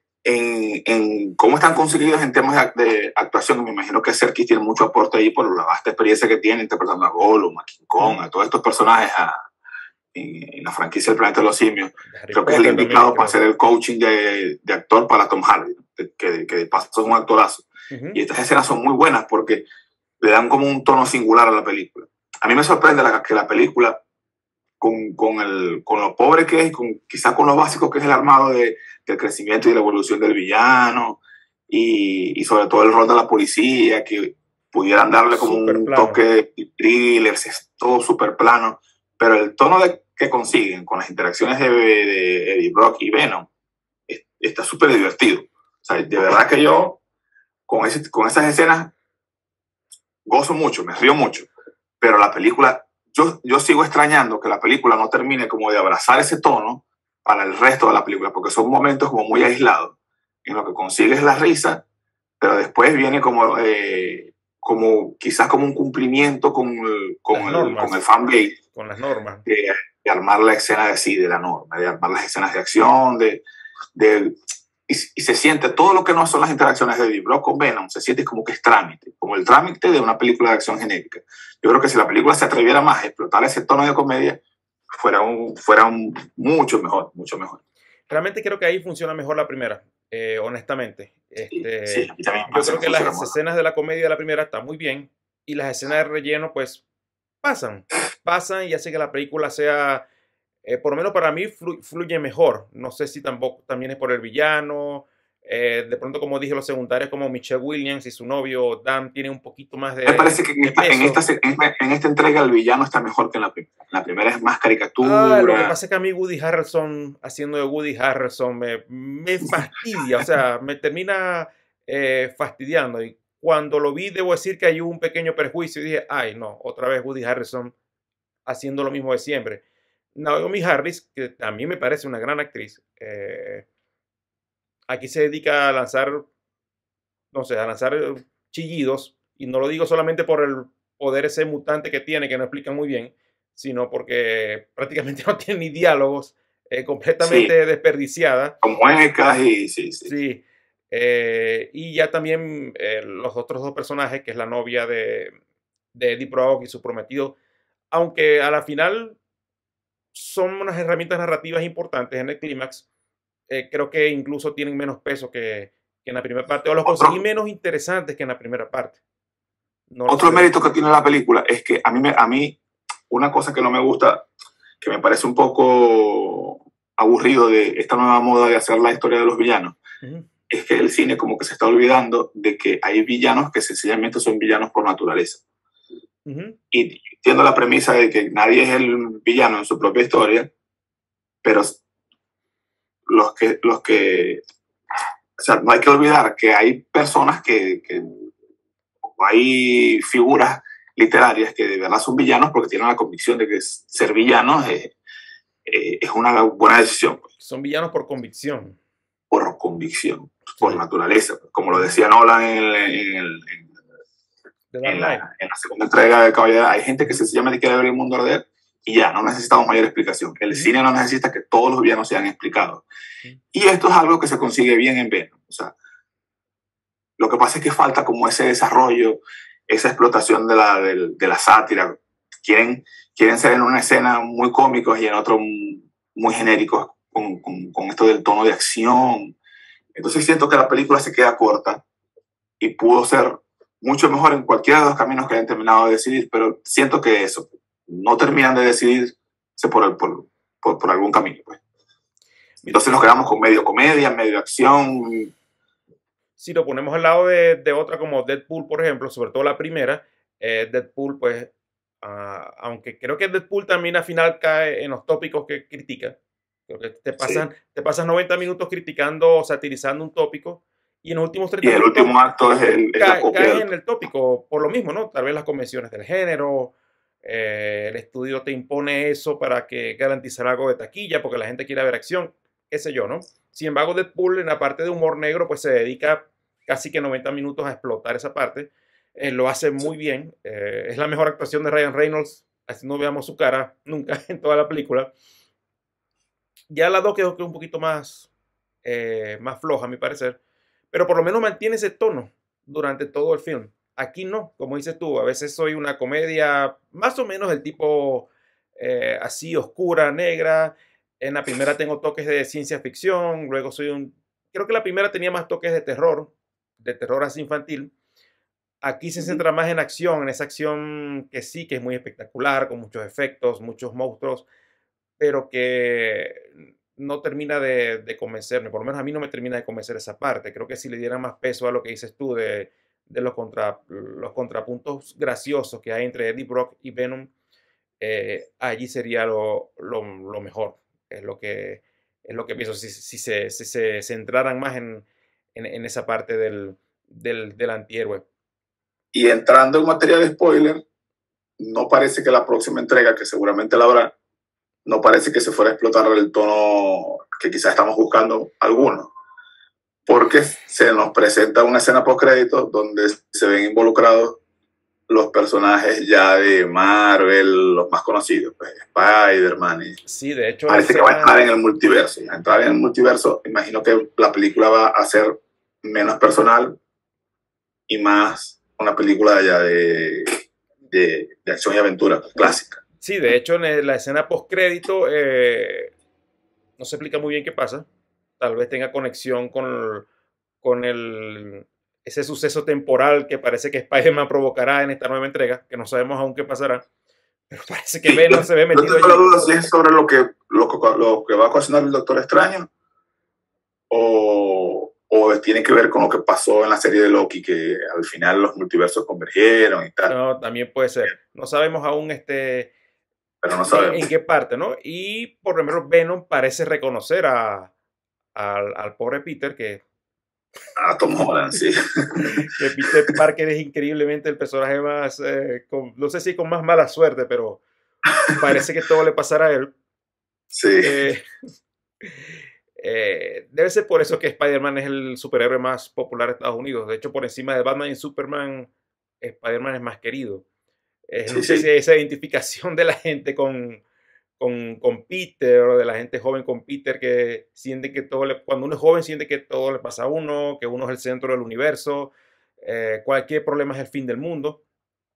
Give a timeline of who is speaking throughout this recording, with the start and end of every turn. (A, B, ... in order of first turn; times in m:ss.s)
0:00.2-0:09.4 A
0:10.1-0:19.6 A
0:12.1-0:13.4 B
0:17.9-0:18.2 B
0:20.2-0:24.0 A
0:24.8-0:43.5 A
0:35.3-0:36.2 B
0:44.1-0:47.0 A
0:47.7-0:48.9 A
0:50.3-0:51.5 A
0:52.0-1:01.8 A
1:02.4-1:08.6 A
1:07.3-1:08.0 B
1:08.7-1:09.5 B
1:09.5-1:13.4 A
1:14.0-1:14.4 A
1:14.9-1:24.4 A
1:25.0-1:27.6 A
1:28.1-1:36.8 B
1:31.5-1:33.3 A
1:37.4-1:40.0 B
1:40.6-1:51.2 B
1:50.1-1:55.8 A
1:55.0-2:07.7 B
2:08.5-2:09.6 B
2:10.2-2:13.6 B
2:14.9-2:16.3 B
2:17.3-2:28.6 B
2:27.2-2:27.5 A
2:28.6-2:30.1 A
2:30.0-2:35.4 B
2:35.9-2:37.4 B
2:37.9-2:39.2 B
2:40.1-2:42.9 B
2:43.5-2:49.0 B
2:46.8-2:47.2 A
2:49.9-2:50.6 B
2:50.1-2:52.6 A
2:53.1-2:54.3 A
2:54.8-2:59.8 A
3:00.0-3:00.3 B
3:00.5-3:05.4 A
3:06.3-3:06.6 B
3:06.7-3:10.5 A
3:11.4-3:11.8 A
3:13.1-3:14.4 A
3:15.4-3:18.2 A
3:19.0-3:24.9 A
3:25.7-3:27.3 A
3:27.4-3:28.8 B
3:29.3-3:33.7 A
3:30.6-3:30.8 B
3:34.7-3:35.2 B
3:34.8-3:42.8 A
3:40.5-3:40.8 B
3:43.5-3:45.7 A
3:47.2-3:59.4 A
4:00.0-4:01.8 A
4:02.6-4:11.6 A
4:12.6-4:13.2 B
4:12.7-4:15.3 A
4:16.4-4:21.5 B
4:22.0-4:26.2 B
4:26.7-4:32.2 B
4:27.2-4:27.5 A
4:31.6-4:33.7 A
4:33.0-4:55.1 B
4:56.7-4:58.3 B
4:58.8-5:00.4 B
5:00.9-5:17.9 B
5:18.8-5:24.5 B
5:19.2-5:19.4 A
5:25.2-5:37.3 B
5:38.0-5:48.2 B
5:49.1-5:50.8 A
5:51.6-5:54.1 A
5:54.9-5:59.1 A
6:00.1-6:04.4 A
6:05.1-6:10.0 A
6:10.1-6:11.5 B
6:10.7-6:16.8 A
6:17.9-6:20.3 A
6:20.9-6:22.8 A
6:23.0-6:25.9 B
6:26.8-6:27.9 B
6:28.4-6:30.1 B
6:30.6-6:36.8 B
6:37.5-6:39.7 B
6:38.1-6:42.7 A
6:43.9-6:50.1 A
6:50.1-6:52.7 B
6:53.4-6:54.1 A
6:53.7-6:57.7 B
6:58.4-6:59.8 B
7:00.8-7:02.3 A
7:02.5-7:07.6 B
7:08.3-7:09.7 B
7:10.5-7:11.1 A
7:10.8-7:11.2 B
7:12.8-7:18.7 B
7:19.2-7:20.4 B
7:21.1-7:23.8 B
7:21.3-7:21.7 A
7:24.4-7:34.6 B